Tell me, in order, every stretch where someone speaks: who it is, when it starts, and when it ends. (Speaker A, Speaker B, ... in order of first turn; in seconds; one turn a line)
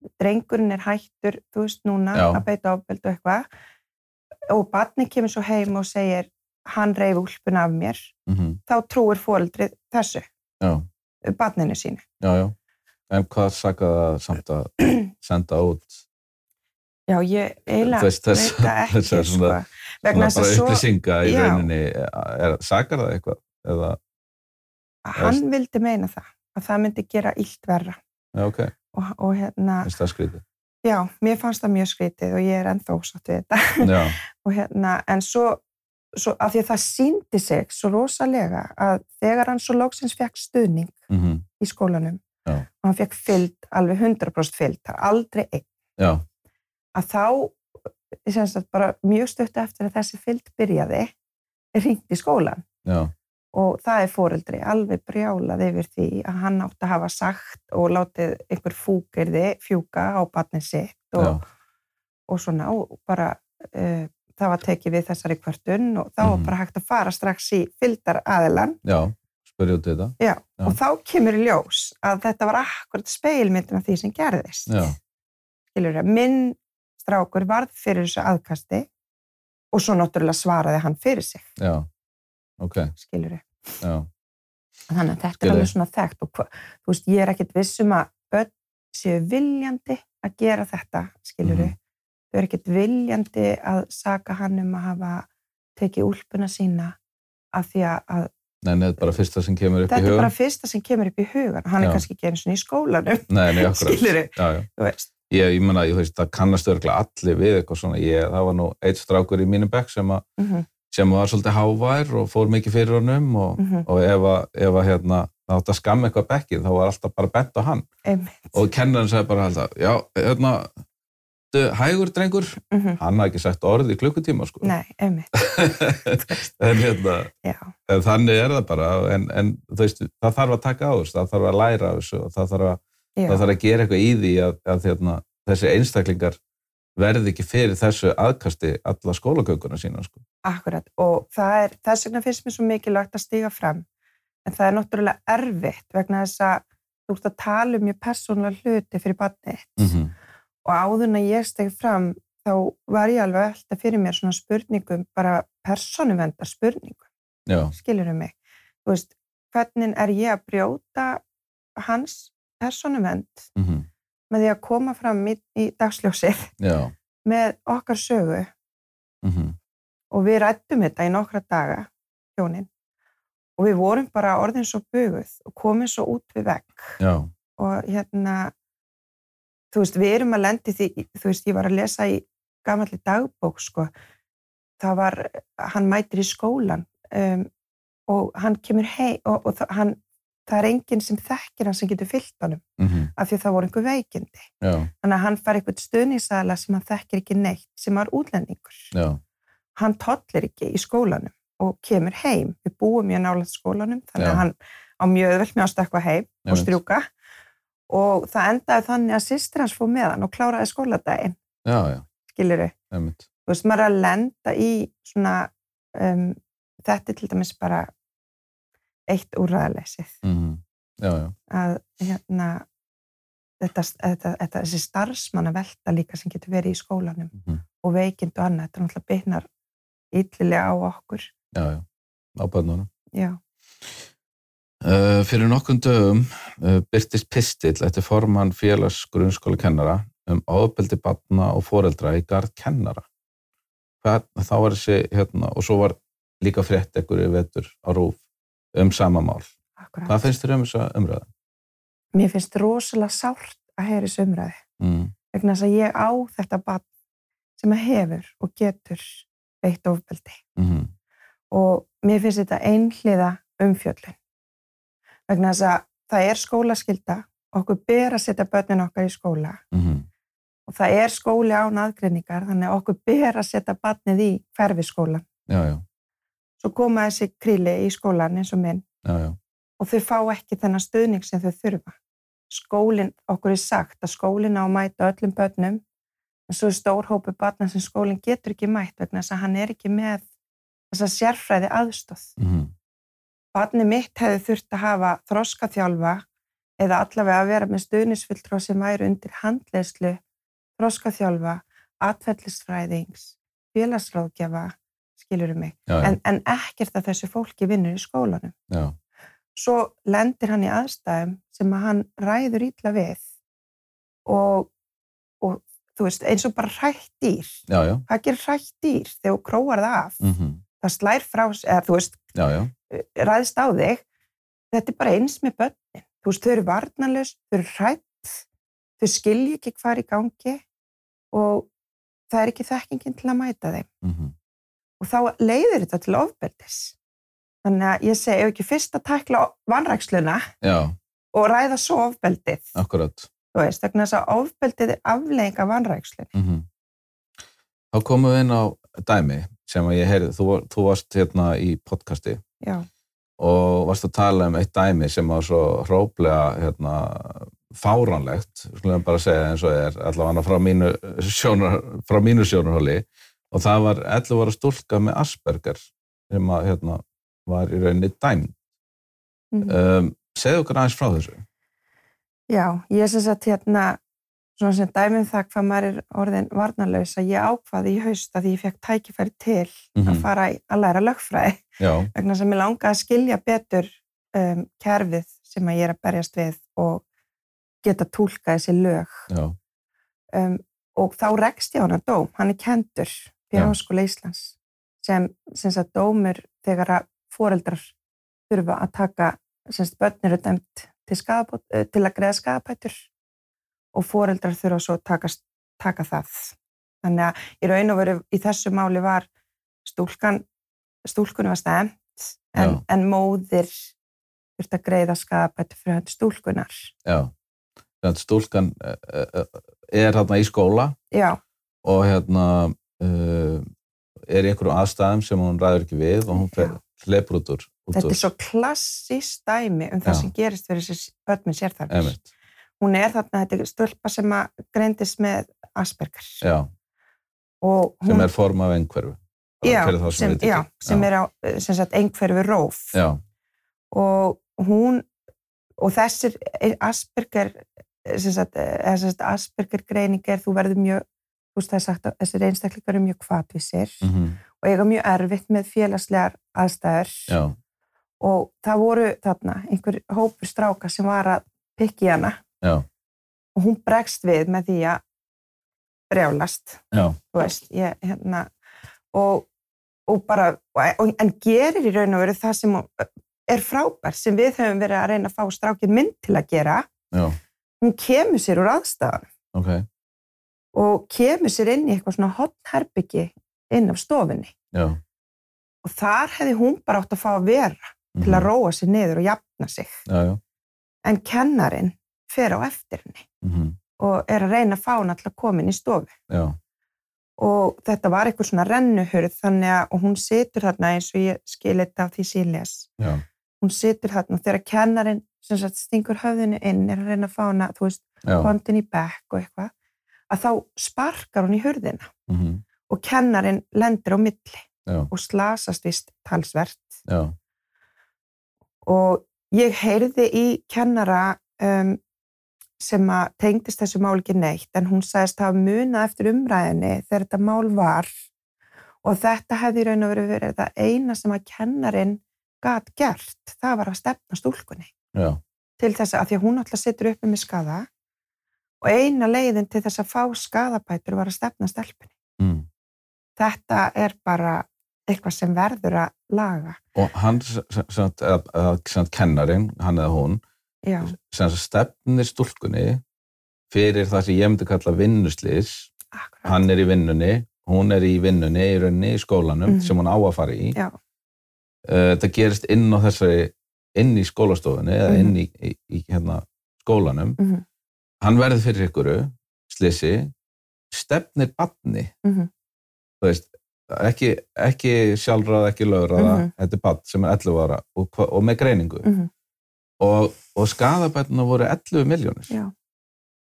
Speaker A: 0.2-3.5
Speaker B: 2.1-2.4
Speaker A: 4.5-8.1
Speaker B: 8.3-8.6
Speaker A: 8.7-10.2
Speaker B: 10.6-10.9
Speaker A: 11.2-12.0
Speaker B: 12.2-12.5
Speaker B: 13.1-16.0
Speaker A: 17.1-21.7
Speaker B: 17.8-19.6
Speaker B: 20.1-24.0
Speaker A: 25.0-28.0
Speaker B: 28.3-28.7
Speaker A: 28.9-29.9
Speaker B: 29.8-30.4
Speaker A: 30.8-35.6
Speaker B: 33.8-34.2
Speaker A: 36.1-41.0
Speaker B: 41.1-41.5
Speaker A: 41.6-42.2
Speaker A: 42.8-45.6
Speaker B: 46.0-46.2
Speaker A: 46.9-51.1
Speaker A: 51.7-52.6
Speaker B: 52.8-53.1
Speaker A: 53.5-61.4
Speaker A: 62.3-68.8
Speaker B: 66.2-66.5
Speaker B: 68.8-70.8
Speaker A: 70.2-74.9
Speaker B: 74.7-75.0
Speaker A: 75.7-78.9
Speaker A: 79.7-81.5
Speaker B: 81.6-81.9
Speaker B: 82.6-82.9
Speaker A: 82.9-83.8
Speaker B: 83.8-84.1
Speaker A: 84.9-91.7
Speaker B: 85.4-85.7
Speaker B: 91.4-91.7
Speaker A: 92.3-97.0
Speaker A: 97.5-98.3
Speaker B: 98.6-100.3
Speaker A: 99.9-105.1
Speaker B: 103.3-104.7
Speaker B: 105.3-110.2
Speaker A: 110.4-110.7
Speaker B: 110.9-117.8
Speaker A: 113.6-113.8
Speaker A: 118.0-118.6
Speaker B: 118.5-120.7
Speaker B: 121.5-124.7
Speaker A: 122.7-123.0
Speaker A: 124.6-125.4
Speaker B: 125.3-127.3
Speaker A: 126.1-126.5
Speaker A: 127.4-127.7
Speaker B: 127.9-136.4
Speaker A: 133.2-133.5
Speaker B: 137.0-140.2
Speaker A: 140.4-143.8
Speaker A: 144.4-149.9
Speaker B: 149.8-150.1
Speaker A: 150.6-157.1
Speaker B: 157.5-157.7
Speaker A: 157.7-161.2
Speaker A: 161.8-163.5
Speaker B: 163.6-163.9
Speaker A: 164.3-166.5
Speaker B: 166.6-166.9
Speaker A: 167.2-168.5
Speaker B: 169.2-169.6
Speaker A: 170.1-172.7
Speaker A: 173.6-177.0
Speaker B: 177.0-177.3
Speaker A: 177.6-178.5
Speaker A: 179.7-183.9
Speaker A: 184.8-187.5
Speaker A: 188.1-192.6
Speaker B: 192.8-193.1
Speaker A: 193.2-194.5
Speaker B: 194.6-194.9
Speaker A: 195.0-198.9
Speaker B: 198.9-199.2
Speaker A: 199.8-207.1
Speaker B: 204.2-204.4
Speaker B: 206.4-206.7
Speaker A: 207.9-211.4
Speaker B: 211.6-212.1
Speaker A: 212.3-212.7
Speaker B: 212.9-213.2
Speaker A: 213.4-217.9
Speaker A: 219.1-220.1
Speaker B: 220.2-221.3
Speaker A: 221.5-222.7
Speaker A: 223.6-229.5
Speaker A: 230.1-231.3
Speaker B: 231.5-231.8
Speaker B: 232.3-232.9
Speaker A: 233.1-233.4
Speaker B: 234.8-243.1
Speaker B: 244.0-248.2
Speaker B: 248.7-249.5
Speaker A: 249.8-250.3
Speaker B: 250.1-251.3
Speaker A: 252.1-254.6
Speaker B: 254.8-255.1
Speaker A: 255.3-256.9
Speaker A: 257.6-260.4
Speaker B: 260.6-260.9
Speaker A: 261.5-264.2
Speaker A: 265.3-269.6
Speaker B: 269.7-270.1
Speaker A: 270.7-275.2
Speaker B: 275.5-275.8
Speaker A: 276.6-278.8
Speaker B: 279.0-279.4
Speaker A: 279.8-281.9
Speaker A: 282.5-285.8
Speaker A: 286.5-290.3
Speaker A: 290.9-292.4
Speaker B: 292.4-292.7
Speaker A: 293.5-296.2
Speaker A: 296.8-300.2
Speaker A: 300.8-308.5
Speaker B: 305.9-306.2
Speaker B: 308.7-308.9
Speaker A: 309.5-313.2
Speaker A: 314.2-314.7
Speaker A: 315.4-320.2
Speaker B: 317.7-318.1
Speaker B: 320.2-320.6
Speaker A: 320.8-322.2
Speaker B: 322.3-322.7
Speaker A: 322.9-324.0
Speaker A: 324.7-328.4
Speaker A: 329.0-330.6
Speaker A: 331.3-331.7
Speaker A: 332.3-333.9
Speaker B: 334.0-334.3
Speaker A: 335.0-336.9
Speaker A: 337.6-340.5
Speaker B: 340.6-340.9
Speaker A: 341.3-342.8
Speaker B: 342.7-343.3
Speaker A: 343.5-346.3
Speaker B: 346.3-346.6
Speaker B: 347.9-352.4
Speaker A: 352.6-352.9
Speaker B: 353.4-368.6
Speaker A: 369.5-369.8
Speaker B: 369.6-371.4
Speaker A: 372.5-374.0
Speaker A: 374.6-387.0
Speaker B: 379.9-380.2
Speaker B: 381.8-382.1
Speaker A: 387.8-389.3
Speaker B: 389.3-389.6
Speaker A: 390.3-397.9
Speaker A: 398.5-403.1
Speaker A: 403.9-409.3
Speaker A: 409.8-410.4
Speaker A: 411.0-413.9
Speaker B: 412.6-412.8
Speaker A: 414.6-416.9
Speaker B: 417.0-417.3
Speaker B: 418.0-421.0
Speaker A: 421.1-421.4
Speaker B: 421.8-423.6
Speaker B: 424.3-428.2
Speaker A: 426.3-426.8
Speaker A: 427.9-432.2
Speaker B: 430.0-430.3
Speaker B: 431.9-432.2
Speaker A: 432.8-436.4
Speaker B: 436.4-436.7
Speaker A: 437.6-438.3
Speaker B: 438.0-441.1
Speaker A: 439.6-443.0
Speaker B: 442.9-443.2
Speaker A: 443.9-445.1
Speaker A: 445.8-454.1
Speaker B: 454.0-454.4
Speaker A: 454.6-457.4
Speaker B: 457.3-457.6
Speaker A: 458.2-462.4
Speaker A: 463.6-465.0
Speaker A: 466.1-468.5
Speaker B: 466.9-467.2
Speaker A: 469.1-469.5
Speaker A: 470.1-476.9
Speaker B: 477.1-477.4
Speaker A: 477.8-479.3
Speaker B: 479.5-479.9
Speaker A: 480.7-484.5
Speaker B: 484.7-485.0
Speaker A: 485.8-490.0
Speaker B: 488.1-488.5
Speaker B: 490.1-490.4
Speaker A: 491.0-493.2
Speaker B: 493.4-493.8
Speaker A: 494.0-496.1
Speaker B: 496.3-496.6
Speaker A: 497.4-502.9
Speaker B: 503.0-503.2
Speaker A: 503.6-509.7
Speaker B: 508.2-508.5
Speaker A: 510.3-512.1
Speaker B: 512.3-512.6
Speaker A: 512.9-517.0
Speaker B: 514.9-515.1
Speaker B: 517.1-517.3
Speaker A: 518.8-522.0
Speaker A: 522.8-528.1
Speaker A: 529.0-534.9
Speaker B: 535.1-535.4
Speaker A: 535.8-537.9
Speaker A: 538.8-542.1
Speaker B: 542.4-542.7
Speaker A: 543.4-546.8
Speaker B: 546.9-550.4
Speaker A: 550.8-551.1
Speaker B: 551.0-553.0
Speaker B: 553.7-555.9
Speaker A: 556.1-556.6
Speaker B: 556.5-560.8
Speaker A: 559.7-559.9
Speaker B: 561.8-567.4
Speaker A: 565.1-565.3
Speaker A: 567.4-567.6
Speaker B: 568.2-570.3
Speaker B: 570.9-572.1
Speaker A: 572.2-572.5
Speaker B: 573.2-579.1
Speaker A: 576.1-576.5
Speaker A: 579.0-579.3
Speaker B: 580.0-582.5